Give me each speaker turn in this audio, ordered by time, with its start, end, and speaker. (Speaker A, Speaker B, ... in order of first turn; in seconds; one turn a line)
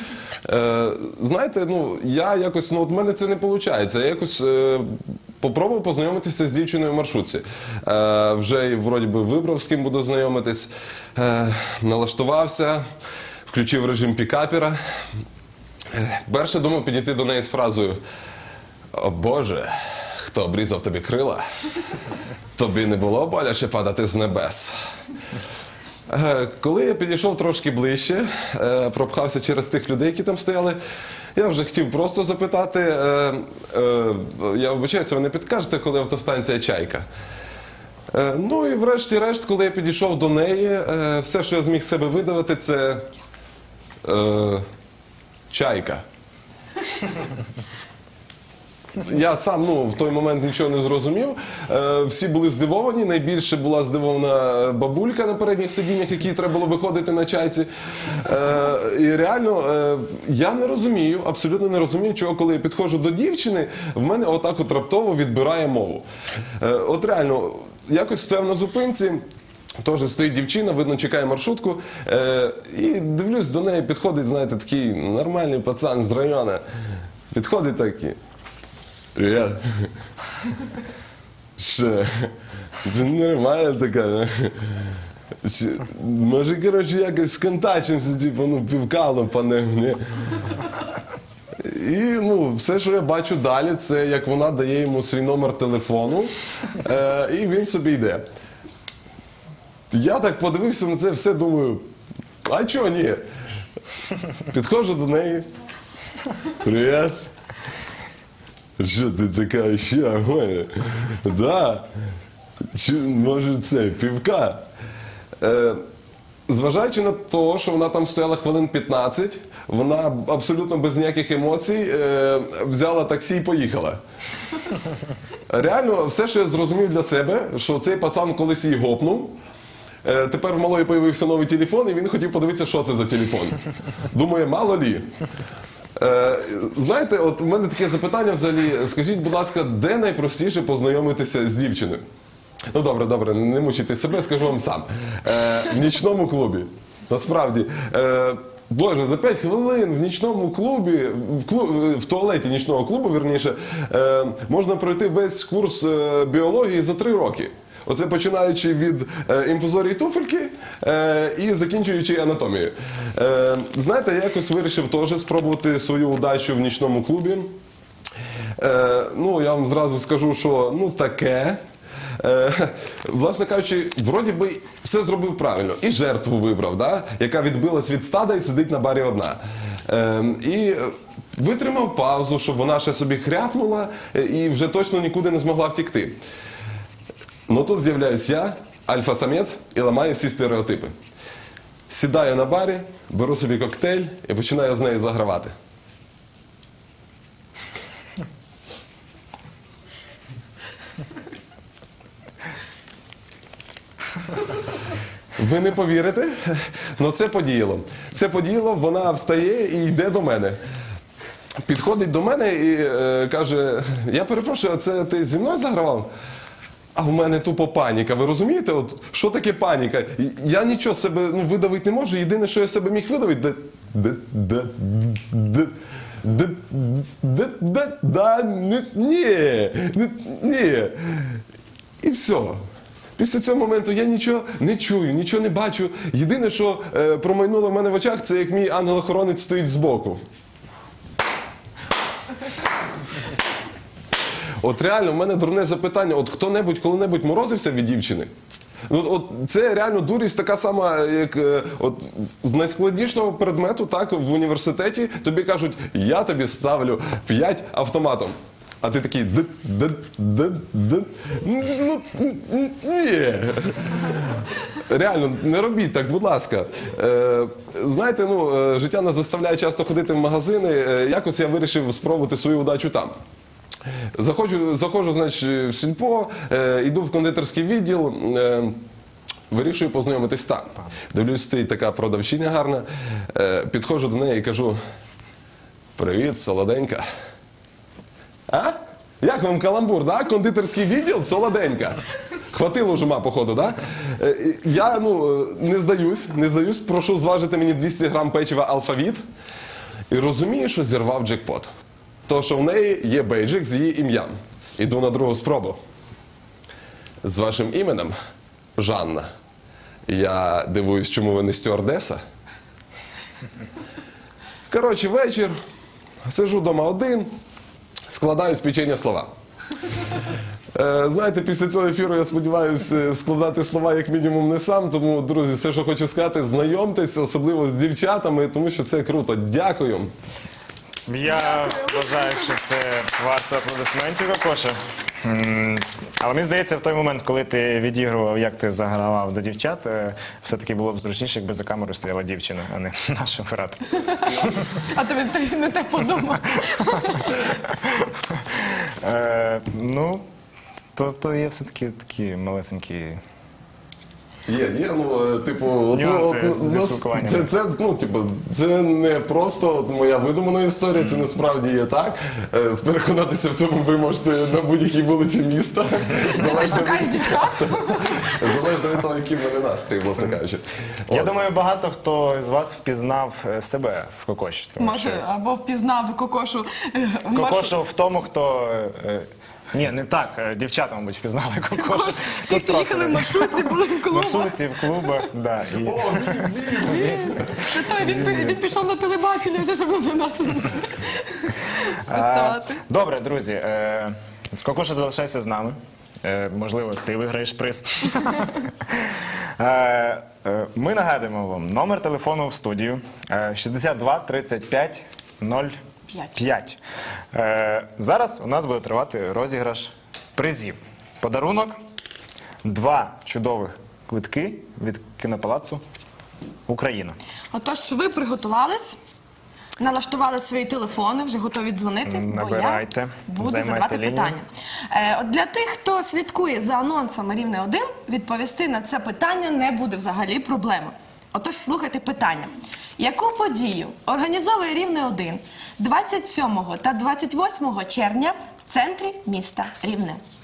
Speaker A: 0.5-12.8
Speaker A: 13.5-14.8
Speaker A: 15.9-18.0
Speaker A: 18.9-21.4
Speaker A: 22.5-24.7
Speaker A: 26.1-30.8
Speaker A: 31.3-37.1
Speaker A: 38.1-43.0
Speaker A: 44.0-44.6
Speaker A: 45.5-46.0
Speaker A: 49.0-57.7
Speaker A: 58.2-66.0
Speaker A: 66.6-69.2
Speaker A: 69.8-76.6
Speaker A: 77.3-78.2
Speaker A: 79.1-79.9
Speaker A: 81.6-82.3
Speaker A: 82.8-84.9
Speaker A: 85.4-90.0
Speaker A: 91.6-98.2
Speaker A: 99.9-101.9
Speaker A: 102.5-103.2
Speaker A: 104.5-105.5
Speaker A: 106.6-107.3
Speaker A: 108.8-111.9
Speaker A: 112.7-114.6
Speaker A: 115.4-115.8
Speaker A: 116.5-124.0
Speaker A: 125.5-129.4
Speaker A: 130.0-133.6
Speaker A: 134.1-135.1
Speaker A: 136.0-142.0
Speaker A: 142.7-167.6
Speaker A: 168.6-171.6
Speaker A: 172.2-186.2
Speaker A: 187.5-190.9
Speaker A: 191.9-195.5
Speaker A: 205.4-210.6
Speaker A: 211.6-216.1
Speaker A: 216.9-231.4
Speaker A: 232.0-232.6
Speaker A: 233.2-240.2
Speaker A: 244.6-248.3
Speaker A: 248.9-273.1
Speaker A: 274.1-278.8
Speaker A: 279.5-284.8
Speaker A: 286.0-287.0
Speaker A: 288.5-292.0
Speaker A: 292.5-299.2
Speaker A: 300.1-301.7
Speaker A: 302.3-305.8
Speaker A: 307.2-308.1
Speaker A: 308.8-309.3
Speaker A: 310.1-312.2
Speaker A: 314.7-315.6
Speaker A: 316.2-317.3
Speaker A: 318.1-319.3
Speaker A: 320.7-330.1
Speaker B: 331.1-344.5
Speaker C: 331.3-332.5
Speaker C: 344.1-347.4
Speaker B: 348.0-350.2
Speaker B: 350.9-353.2
Speaker A: 354.4-371.3
Speaker B: 355.9-357.5
Speaker B: 361.0-361.2
Speaker C: 366.2-368.3
Speaker B: 371.1-375.2
Speaker C: 374.8-377.7
Speaker B: 377.3-386.6
Speaker C: 381.7-385.2
Speaker A: 385.8-387.6
Speaker C: 386.8-392.8
Speaker B: 387.5-388.6
Speaker B: 392.1-405.8
Speaker B: 406.3-406.8
Speaker B: 407.3-411.8
Speaker B: 412.6-415.8
Speaker B: 416.7-417.1
Speaker C: 417.5-419.0
Speaker C: 419.8-440.2
Speaker B: 422.0-424.4